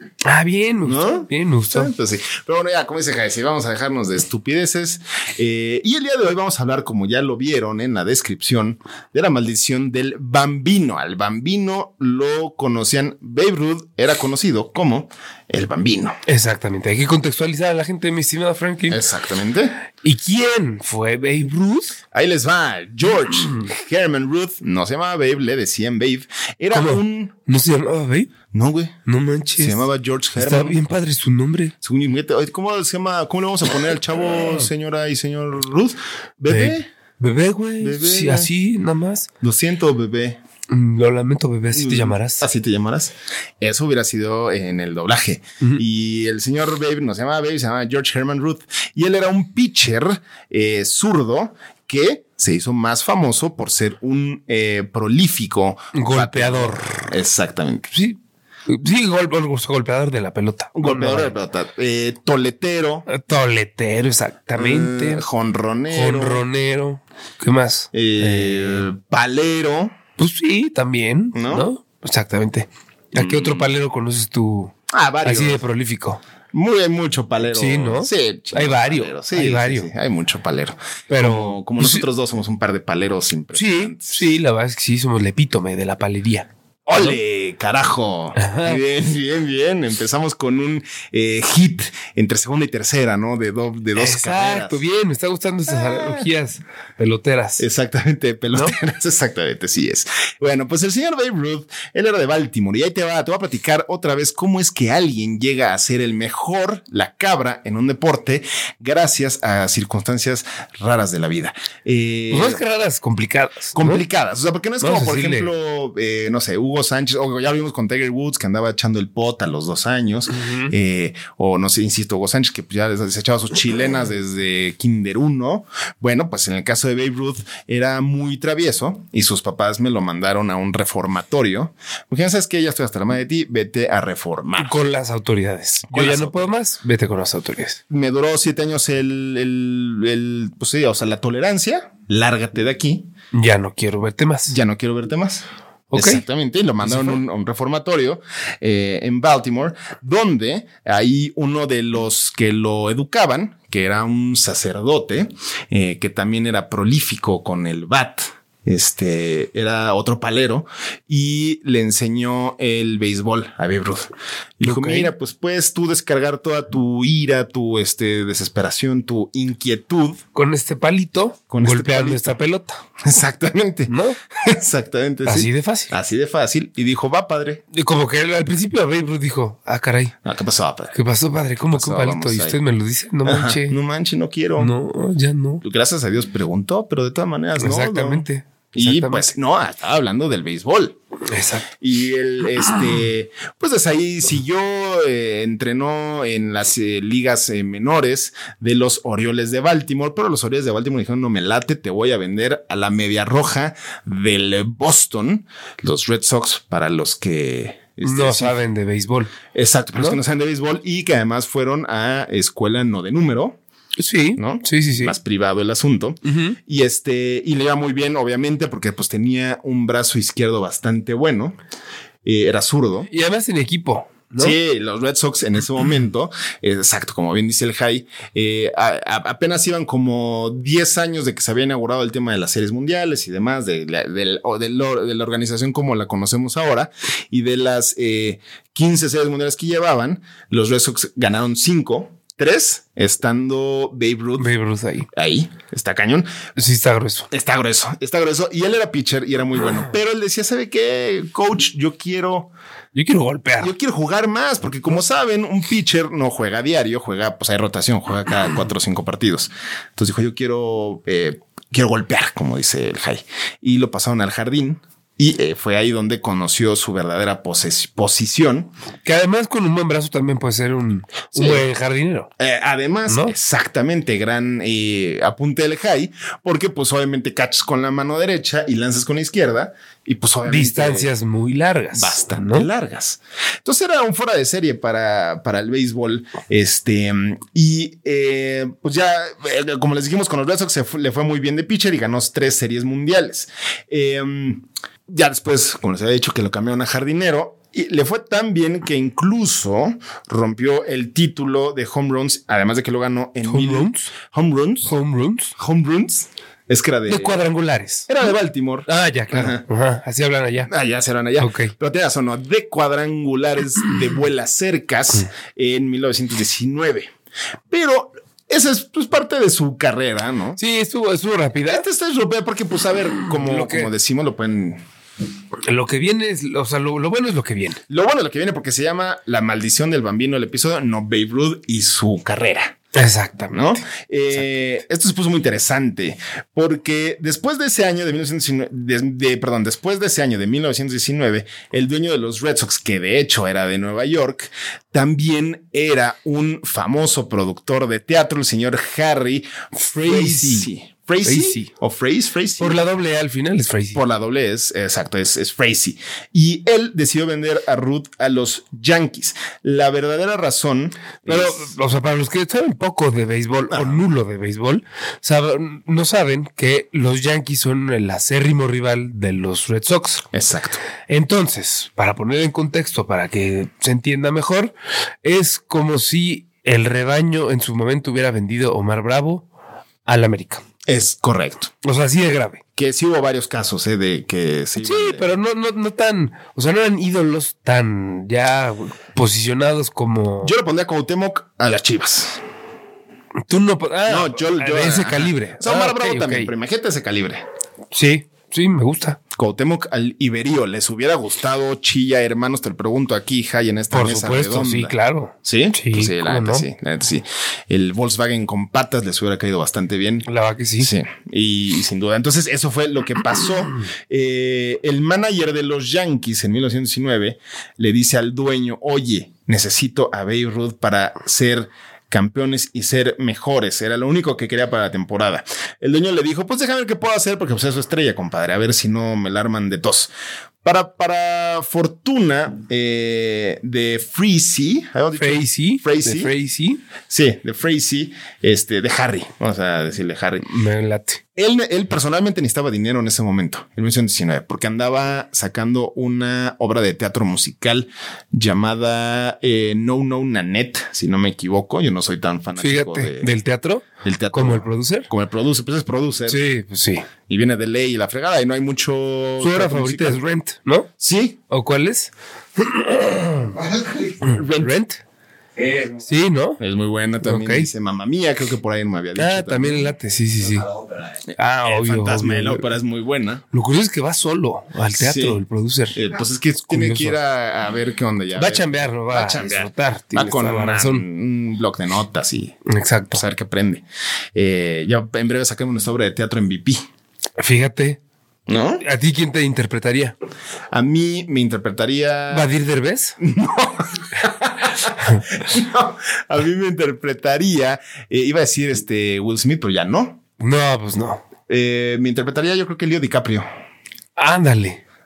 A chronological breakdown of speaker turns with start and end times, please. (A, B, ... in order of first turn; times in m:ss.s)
0:00.2-0:01.9 A
0:00.8-0:16.2 B
0:16.3-0:19.0 A
0:18.9-0:19.8 B
0:20.0-0:22.0 A
0:22.1-0:27.3 B
0:26.7-0:28.3 A
0:28.5-0:28.9 B
0:29.0-0:29.8 A
0:29.6-0:30.8 B
0:30.4-0:31.7 A
0:31.8-0:36.9 B
0:36.5-0:39.3 A
0:37.8-0:38.5 B
0:39.4-0:40.4 B
0:40.7-0:42.5 A
0:41.7-0:57.9 B
0:55.9-0:57.1 A
0:57.9-1:01.3 A
1:00.8-1:03.0 B
1:03.1-1:05.2 A
1:04.6-1:06.4 B
1:05.9-1:08.9 A
1:07.9-1:10.0 B
1:10.2-1:16.2 A
1:11.3-1:11.7 B
1:13.1-1:13.6 B
1:14.9-1:15.6 B
1:16.5-1:24.3 B
1:17.5-1:19.9 A
1:21.1-1:22.1 A
1:23.5-1:27.2 A
1:26.9-1:34.8 B
1:28.3-1:28.8 A
1:33.9-1:37.6 A
1:35.7-1:36.3 B
1:37.6-1:52.6 B
1:52.3-1:54.0 A
1:53.8-2:14.8 B
1:54.8-1:55.5 A
2:00.3-2:00.7 A
2:14.6-2:17.8 A
2:15.9-2:16.5 B
2:17.9-2:23.1 B
2:23.3-2:24.6 A
2:24.5-2:50.2 B
2:25.9-2:26.2 A
2:26.8-2:27.2 A
2:44.6-2:45.1 A
2:50.3-2:52.8 A
2:51.5-2:52.2 B
2:53.0-2:57.6 B
2:53.9-2:54.2 A
2:55.2-2:55.9 A
2:57.7-3:00.1 A
3:00.2-3:00.9 B
3:00.9-3:03.8 A
3:01.7-3:02.6 B
3:03.2-3:04.7 B
3:04.6-3:05.6 A
3:05.6-3:11.0 B
3:07.6-3:09.3 A
3:11.3-3:11.7 A
3:11.8-3:28.6 B
3:28.0-3:29.3 A
3:29.5-3:33.6 B
3:34.0-3:35.1 A
3:34.4-3:41.6 B
3:36.2-3:36.6 A
3:42.2-3:43.1 B
3:43.1-3:44.6 A
3:44.4-4:04.5 B
4:04.4-4:05.1 A
4:05.1-4:06.3 B
4:06.6-4:07.3 A
4:07.3-4:12.5 B
4:12.9-4:13.7 A
4:13.6-4:28.7 B
4:29.0-4:32.3 A
4:31.3-4:31.6 B
4:32.4-4:41.1 B
4:33.1-4:33.4 A
4:40.5-4:42.7 A
4:41.9-5:04.9 B
5:03.4-5:04.1 A
5:04.8-5:05.5 A
5:05.6-5:07.4 B
5:07.1-5:08.1 A
5:08.1-5:09.6 B
5:08.9-5:10.7 A
5:10.7-5:17.1 B
5:11.4-5:11.7 A
5:17.7-5:20.6 B
5:20.6-5:21.8 A
5:21.7-5:24.8 B
5:23.3-5:23.9 A
5:25.7-5:27.8 A
5:27.9-5:32.8 B
5:32.9-5:33.8 A
5:33.5-5:49.5 B
5:49.7-5:50.7 A
5:50.0-5:52.8 B
5:51.2-5:51.7 A
5:52.6-5:54.0 A
5:53.9-6:01.8 B
6:01.2-6:10.2 A
6:03.7-6:04.0 B
6:10.3-6:10.8 B
6:11.1-6:19.4 A
6:20.0-6:20.6 A
6:20.9-6:21.7 B
6:21.8-6:22.6 A
6:22.8-6:25.4 B
6:24.8-6:30.5 A
6:30.4-6:32.4 B
6:33.5-6:36.5 A
6:34.0-6:37.4 B
6:37.9-6:39.2 A
6:39.3-6:50.2 B
6:43.9-6:46.7 A
6:50.2-6:50.9 A
6:50.8-7:10.1 B
7:10.6-7:16.3 B
7:15.2-7:16.8 A
7:17.1-7:20.4 B
7:20.4-7:21.2 A
7:21.4-7:33.3 B
7:32.6-7:35.1 A
7:34.0-7:36.4 B
7:36.3-7:37.1 A
7:37.3-7:40.2 B
7:39.4-7:40.9 A
7:41.0-7:41.4 B
7:41.5-7:43.6 A
7:43.6-7:44.7 B
7:44.2-7:45.0 A
7:45.9-7:46.6 A
7:46.6-7:49.9 B
7:47.2-7:47.7 A
7:49.1-7:50.7 A
7:51.3-7:53.4 B
7:51.4-7:52.6 A
7:53.5-7:56.0 A
7:55.0-7:55.4 B
7:55.9-8:02.6 B
7:56.7-7:57.2 A
7:58.3-8:01.0 A
8:02.6-8:03.2 A
8:03.1-8:06.8 B
8:07.4-8:08.0 A
8:08.5-8:08.8 B
8:08.8-8:10.1 A
8:10.7-8:12.5 B
8:12.3-8:13.2 A
8:13.2-8:20.2 B
8:20.4-8:21.2 A
8:21.5-8:23.5 B
8:24.2-8:24.8 A